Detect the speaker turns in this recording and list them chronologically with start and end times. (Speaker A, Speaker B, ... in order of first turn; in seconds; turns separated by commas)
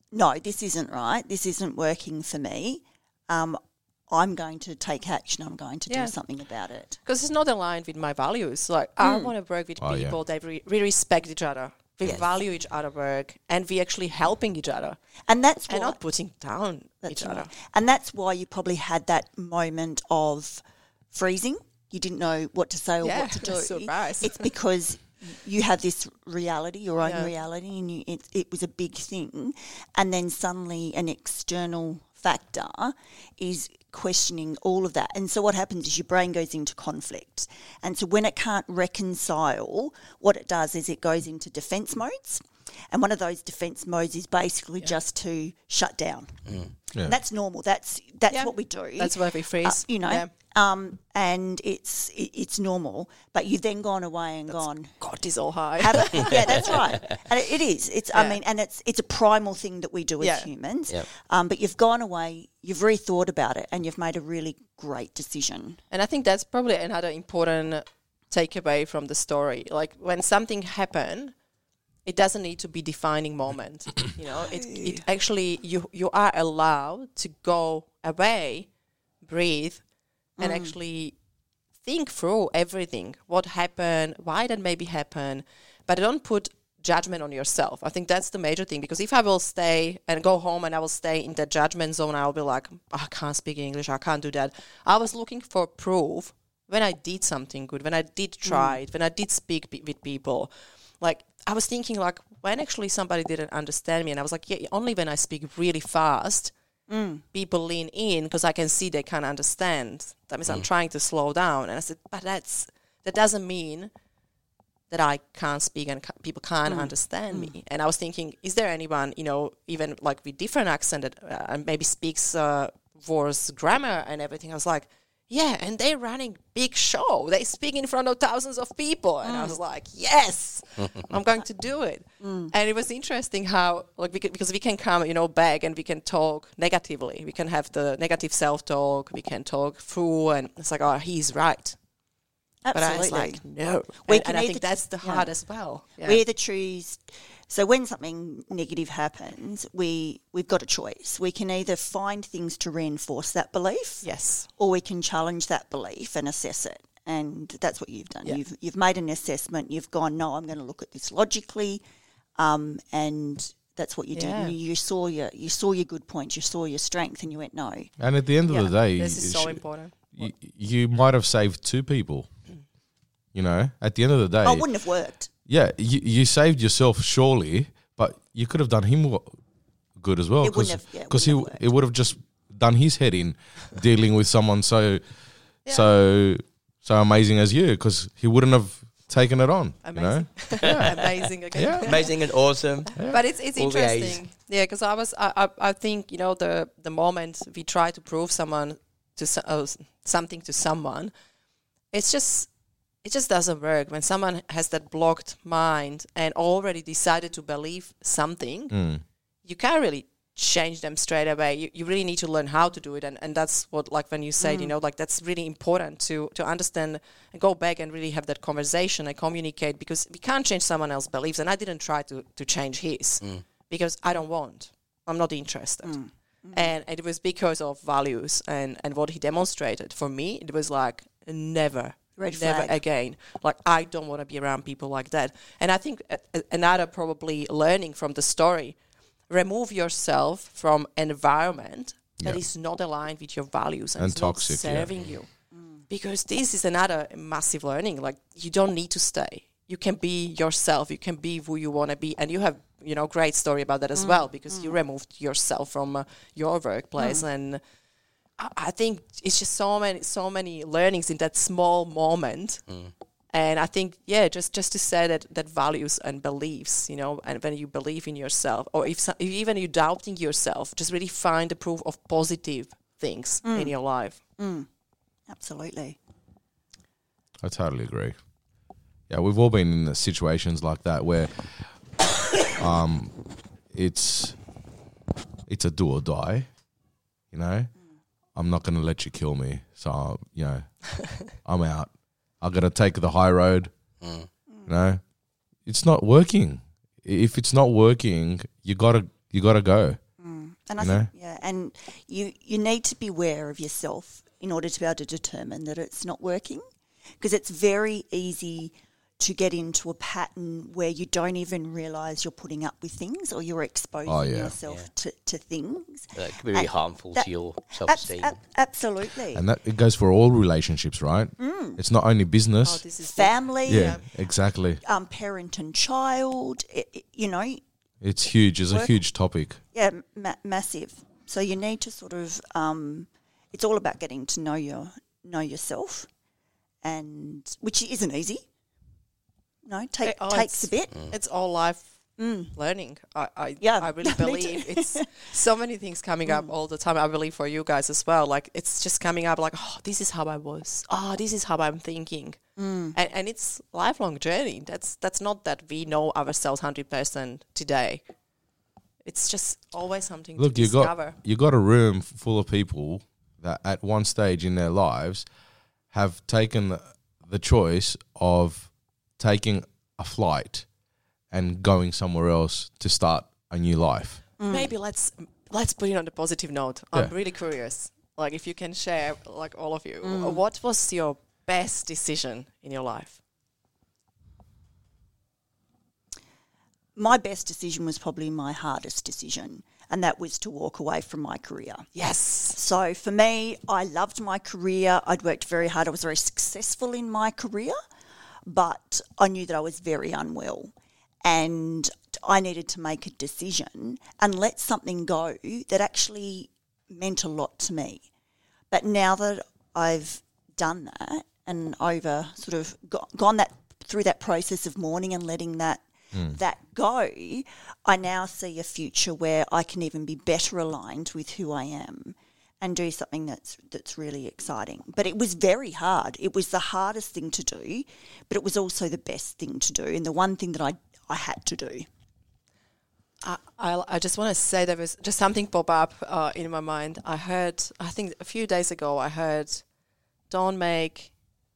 Speaker A: 0.1-7.0, Speaker B: 5.9-6.2, Speaker B: 7.0-15.0, Speaker A: 9.0-9.3, Speaker C: 9.8-10.2, Speaker A: 15.3-16.0, Speaker B: 15.7-17.5, Speaker A: 17.0-55.0, Speaker B: 23.0-24.5, Speaker B: 27.0-27.3, Speaker D: 46.5-46.7, Speaker B: 48.3-50.3, Speaker B: 54.5-56.8, Speaker A: 55.8-65.8, Speaker D: 56.1-57.1, Speaker B: 58.1-58.4, Speaker B: 60.2-60.5, Speaker B: 65.9-71.3, Speaker B: 72.0-78.7, Speaker A: 74.3-75.0, Speaker B: 79.2-79.8, Speaker A: 80.4-80.8, Speaker B: 80.4-81.2, Speaker B: 81.8-106.5, Speaker A: 98.5-98.8, Speaker A: 106.9-107.2, Speaker B: 107.3-113.9, Speaker B: 114.9-141.8, Speaker A: 116.7-117.5, Speaker A: 129.2-129.6, Speaker D: 130.8-131.1, Speaker A: 132.2-132.5, Speaker A: 142.7-143.4, Speaker B: 142.7-146.2, Speaker A: 144.0-145.3, Speaker A: 146.0-161.8, Speaker B: 154.0-154.5, Speaker A: 162.4-167.9, Speaker B: 164.1-164.6, Speaker C: 168.0-172.3, Speaker B: 168.5-170.3, Speaker C: 173.3-174.7, Speaker A: 174.4-175.3, Speaker C: 175.5-179.4, Speaker C: 180.0-185.0, Speaker A: 180.4-181.7, Speaker C: 185.7-191.0, Speaker B: 189.8-192.2, Speaker C: 191.6-192.0, Speaker D: 191.8-193.0, Speaker B: 193.0-201.1, Speaker D: 193.5-194.2, Speaker B: 201.9-202.5, Speaker B: 203.0-208.8, Speaker C: 208.7-209.0, Speaker B: 209.4-226.0, Speaker A: 214.4-214.8, Speaker A: 225.8-226.7, Speaker B: 226.5-238.8, Speaker A: 232.2-232.8, Speaker B: 239.3-245.3, Speaker C: 244.0-245.0, Speaker A: 245.6-245.8, Speaker B: 245.9-257.6, Speaker A: 254.0-254.8, Speaker A: 257.0-257.3, Speaker B: 258.4-262.6, Speaker D: 262.7-262.9, Speaker B: 263.3-274.2, Speaker A: 273.4-274.7, Speaker A: 275.3-276.0, Speaker C: 277.4-278.1, Speaker C: 279.1-281.3, Speaker C: 282.6-283.1, Speaker C: 283.7-284.4, Speaker C: 285.5-286.5, Speaker C: 287.3-287.7, Speaker C: 288.4-290.8, Speaker C: 291.4-293.7, Speaker D: 294.0-294.3, Speaker C: 294.7-295.0, Speaker C: 295.7-300.0, Speaker A: 300.2-306.6, Speaker C: 300.8-301.1, Speaker A: 307.2-317.3, Speaker C: 314.1-314.6, Speaker D: 316.1-318.4, Speaker A: 317.8-319.5, Speaker C: 319.3-322.8, Speaker A: 321.4-321.8, Speaker B: 322.6-324.1, Speaker A: 323.1-324.0, Speaker C: 323.7-324.8, Speaker A: 324.8-327.6, Speaker C: 328.0-329.6, Speaker A: 329.7-336.1, Speaker A: 336.8-338.4, Speaker A: 339.6-341.0, Speaker B: 340.0-342.0, Speaker A: 342.2-342.5, Speaker B: 342.5-352.4, Speaker A: 343.6-345.1, Speaker A: 346.3-346.5, Speaker A: 352.6-353.0, Speaker B: 352.9-358.1, Speaker B: 359.1-361.2, Speaker C: 360.4-365.3, Speaker C: 365.9-370.7, Speaker C: 371.3-374.2, Speaker A: 374.4-374.7, Speaker B: 374.5-383.2, Speaker A: 380.0-380.4, Speaker A: 387.0-391.9, Speaker B: 391.9-392.6, Speaker A: 392.5-397.8, Speaker A: 398.5-400.7, Speaker A: 401.2-408.1, Speaker A: 408.7-431.9, Speaker B: 433.2-439.6, Speaker B: 440.3-441.1